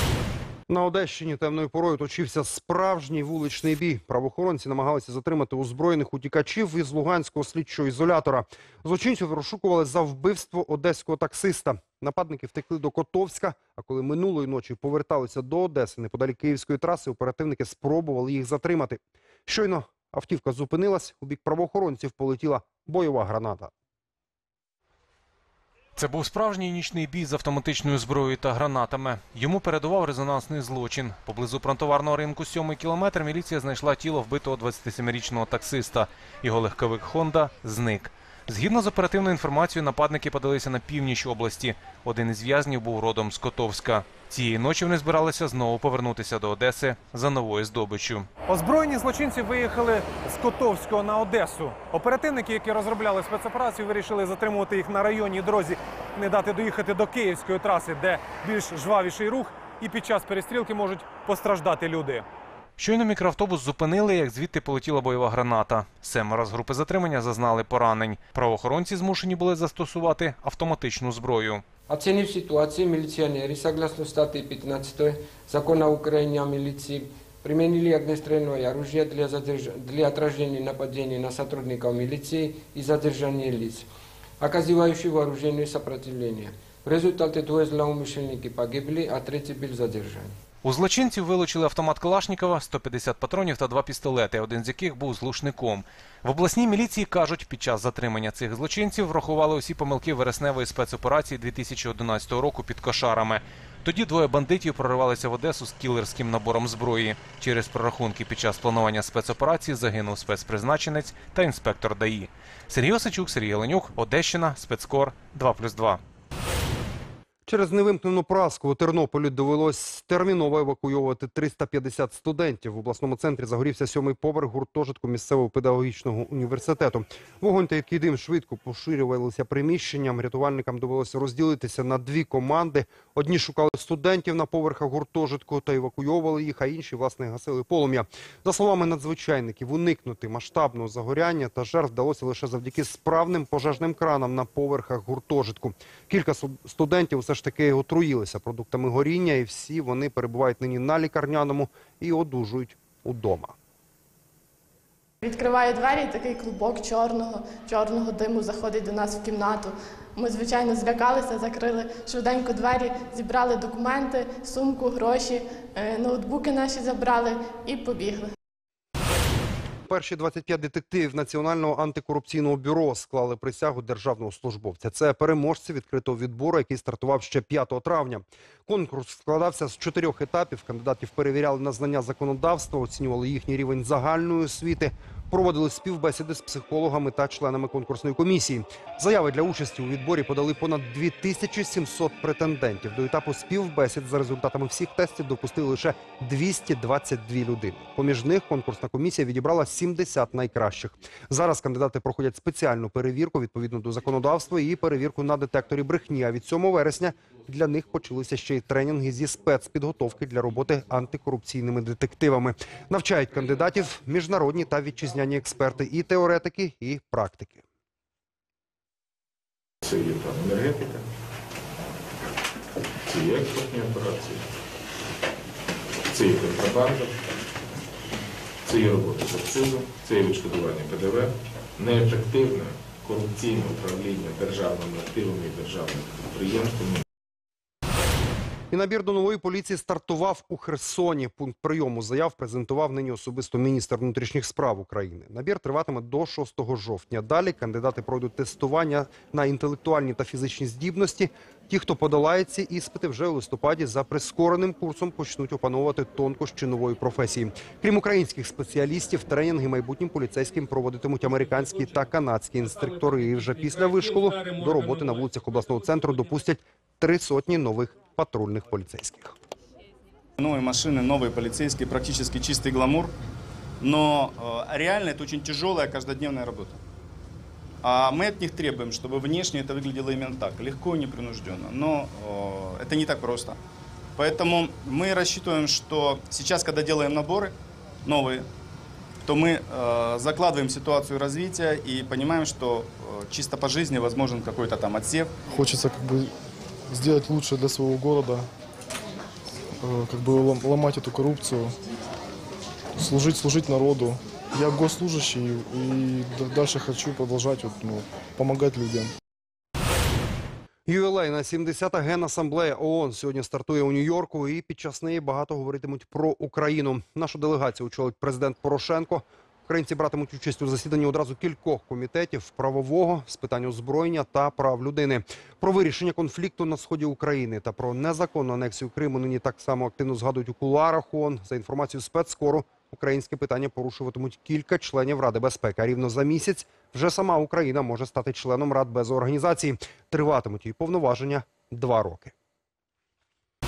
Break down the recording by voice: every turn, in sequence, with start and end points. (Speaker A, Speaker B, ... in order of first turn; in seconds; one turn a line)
Speaker A: 0.7-23.7
Speaker B: 26.0-48.3
Speaker C: 48.5-62.2
Speaker B: 62.8-71.7
Speaker D: 71.9-83.9
Speaker D: 84.4-90.4
Speaker B: 90.6-116.0
Speaker A: 117.5-153.5
Speaker E: 155.2-168.3
Speaker A: 169.9-217.6
Speaker F: 219.8-221.1
Speaker F: 223.1-224.4
Speaker F: 226.1-227.2
Speaker F: 228.6-237.0
Speaker A: 238.7-269.3
Speaker G: 270.4-273.1
Speaker G: 273.8-276.8
Speaker G: 277.8-283.6
Speaker G: 284.2-287.5
Speaker G: 288.0-288.5
Speaker G: 289.2-295.3
Speaker H: 295.5-296.3
Speaker H: 296.9-298.5
Speaker H: 299.8-301.8
Speaker H: 302.9-309.1
Speaker A: 310.9-342.3